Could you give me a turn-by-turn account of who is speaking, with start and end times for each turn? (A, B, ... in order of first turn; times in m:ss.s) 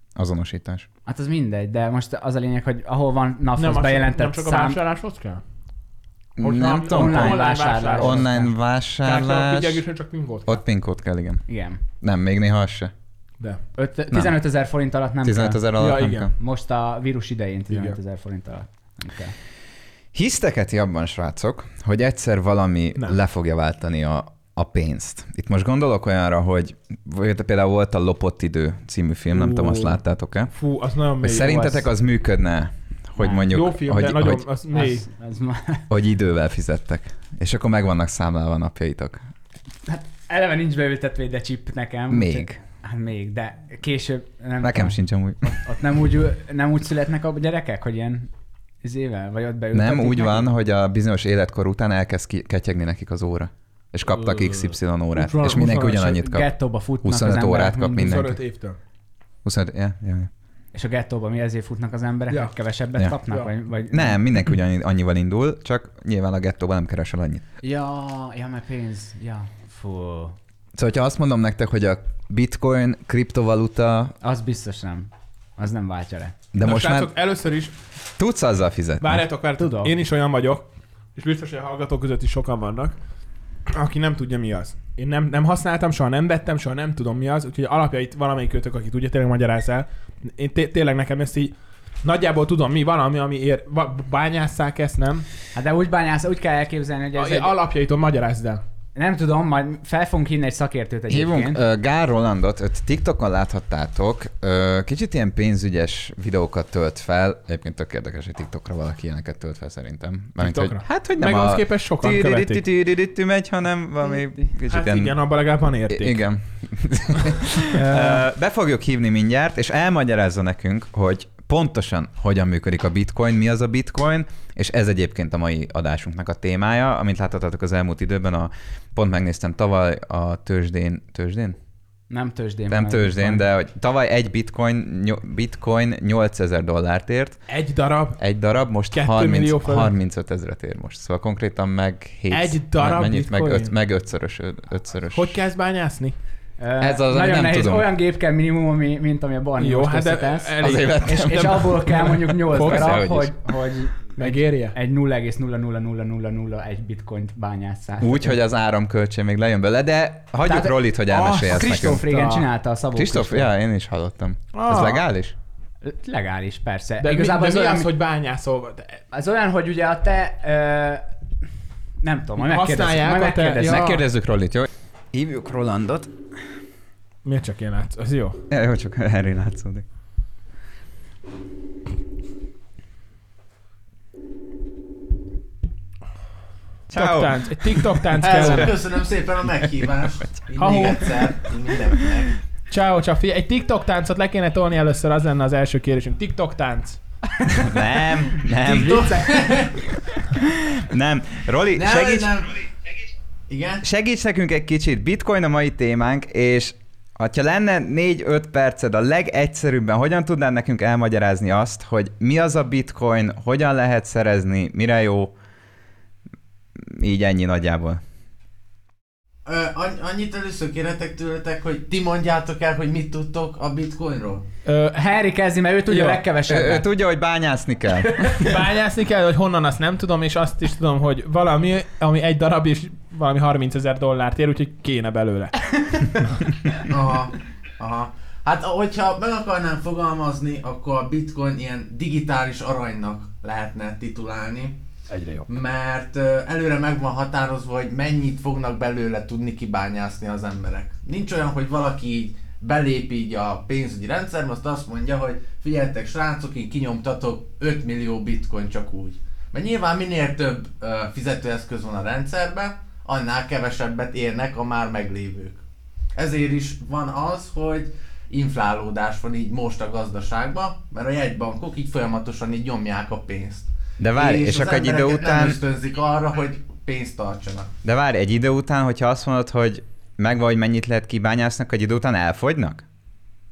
0:00.2-0:00.9 A
0:01.0-0:04.8 B
0:03.6-0:05.4 C
0:06.4-0:09.8 A
0:06.4-0:08.3 C
0:06.9-0:08.5 B
0:09.0-0:10.6 C
0:10.4-0:11.4 A
0:11.5-0:11.8 B
0:12.0-0:12.9 A
0:13.7-0:19.3 B
0:14.1-0:14.4 A
0:15.2-0:16.3 A
0:15.8-0:16.3 C
0:17.7-0:18.0 C
0:20.1-0:30.5 A
0:29.3-0:30.0 C
0:30.5-0:31.8 C
0:31.2-0:34.4 A
0:33.2-0:33.5 B
0:33.5-0:35.1 C
0:34.7-0:35.8 B
0:35.9-0:39.2 A
0:39.9-0:48.3 B
0:42.1-0:42.6 A
0:44.6-0:45.5 A
0:48.8-0:50.5 B
0:49.7-0:56.5 A
0:54.1-0:56.1 C
0:56.0-0:58.2 B
0:57.0-0:58.4 A
0:58.0-0:58.8 C
0:59.4-1:00.3 A
1:00.7-1:04.2 B
1:03.9-1:07.4 A
1:07.6-1:10.4 B
1:10.8-1:14.1 A
1:14.2-1:16.3 B
1:16.5-1:17.1 A
1:16.6-1:17.7 C
1:18.2-1:19.2 A
1:19.0-1:23.0 C
1:19.6-1:20.0 B
1:23.7-1:31.5 C
1:32.0-1:35.2 C
1:35.5-1:37.5 B
1:37.2-1:38.6 C
1:38.9-1:41.6 B
1:41.1-1:55.2 A
1:50.4-1:52.6 C
1:54.7-1:56.2 C
1:55.9-2:11.6 A
1:57.7-1:58.2 C
2:12.1-2:13.4 B
2:12.7-2:17.4 A
2:17.5-2:18.2 C
2:18.2-2:25.4 A
2:18.9-2:19.9 C
2:22.3-2:23.7 C
2:25.1-2:26.1 C
2:26.6-2:38.3 B
2:26.8-2:27.9 A
2:29.6-2:33.1 C
2:30.6-2:31.7 A
2:32.5-2:33.3 A
2:34.2-2:34.8 C
2:38.0-2:42.0 A
2:40.4-2:43.5 B
2:41.1-2:42.4 C
2:42.9-2:45.3 A
2:44.5-2:45.0 C
2:45.8-2:47.9 B
2:47.0-2:49.0 C
2:49.1-2:51.0 B
2:52.0-2:54.0 B
2:52.4-2:54.0 C
2:53.6-2:56.1 A
2:57.2-2:58.4 C
2:58.5-2:59.8 A
3:06.9-3:08.7 A
3:06.9-3:08.8 C
3:08.2-3:12.3 D
3:10.6-3:11.3 C
3:12.7-3:17.0 C
3:17.5-3:19.2 A
3:18.6-3:19.8 D
3:18.7-3:19.4 B
3:20.3-3:22.3 A
3:21.7-3:22.6 D
3:23.5-3:23.8 D
3:23.8-3:35.3 A
3:36.8-3:38.0 A
3:39.4-3:44.4 D
3:44.6-3:45.0 C
3:44.9-3:46.9 B
3:45.9-3:46.2 C
3:46.5-3:48.5 A
3:47.9-3:48.5 B
3:48.4-3:55.5 C
3:55.8-3:56.2 B
3:56.9-4:04.8 D
4:05.5-4:25.6 D
4:26.2-4:37.7 D
4:34.0-4:35.6 A
4:37.8-4:42.8 A